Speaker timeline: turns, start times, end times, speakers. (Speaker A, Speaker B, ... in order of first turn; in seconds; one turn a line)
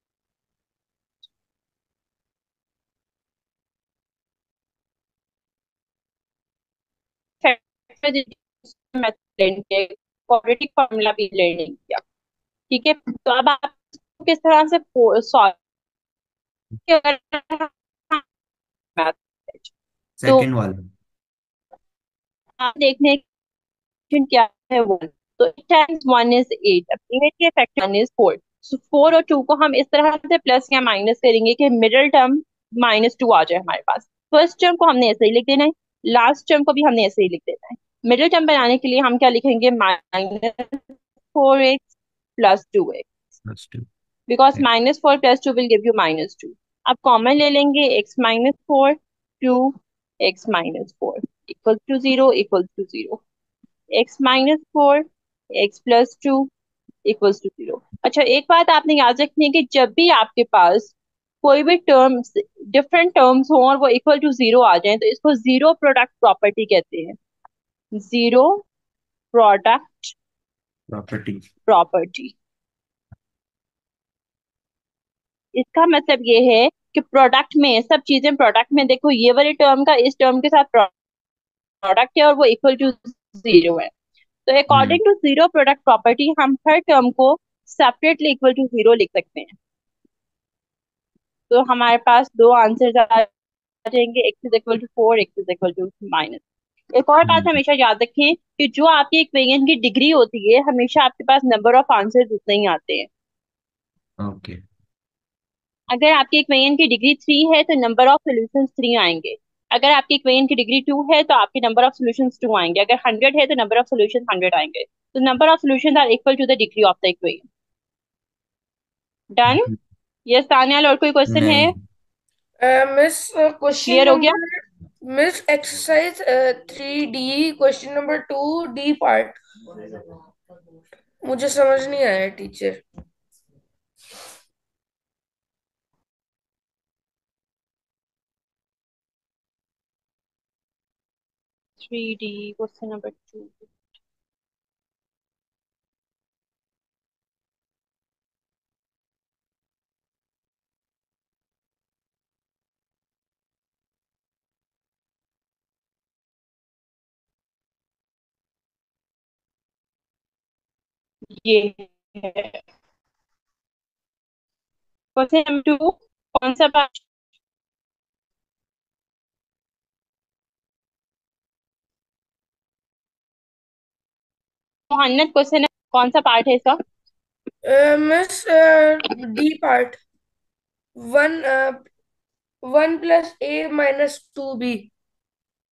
Speaker A: 7.4-12.0
Speaker A: 12.7-15.6
Speaker A: 16.9-18.2
Speaker A: 19.0-19.7
Speaker B: 20.2-20.9
Speaker A: 22.6-23.2
Speaker A: 24.1-43.1
Speaker B: 43.4-43.9
Speaker A: 44.3-53.2
Speaker A: 53.9-56.5
Speaker A: 57.1-67.2
Speaker A: 68.0-68.6
Speaker A: 69.3-70.2
Speaker B: 70.9-71.5
Speaker A: 71.7-72.3
Speaker A: 75.5-80.9
Speaker A: 81.8-83.9
Speaker A: 84.5-89.5
Speaker B: 84.7-85.0
Speaker A: 91.5-93.3
Speaker A: 93.8-96.4
Speaker A: 97.0-103.1
Speaker B: 97.2-97.5
Speaker B: 104.2-104.6
Speaker A: 105.9-117.5
Speaker A: 119.3-119.7
Speaker B: 119.5-119.8
Speaker A: 120.3-121.7
Speaker B: 121.3-121.7
Speaker C: 122.6-129.4
Speaker A: 123.9-124.4
Speaker C: 131.2-132.8
Speaker A: 141.8-143.7
Speaker A: 161.3-162.6
Speaker A: 165.2-167.0
Speaker A: 174.9-176.8
Speaker C: 177.6-180.0
Speaker C: 181.0-181.8
Speaker C: 182.6-184.9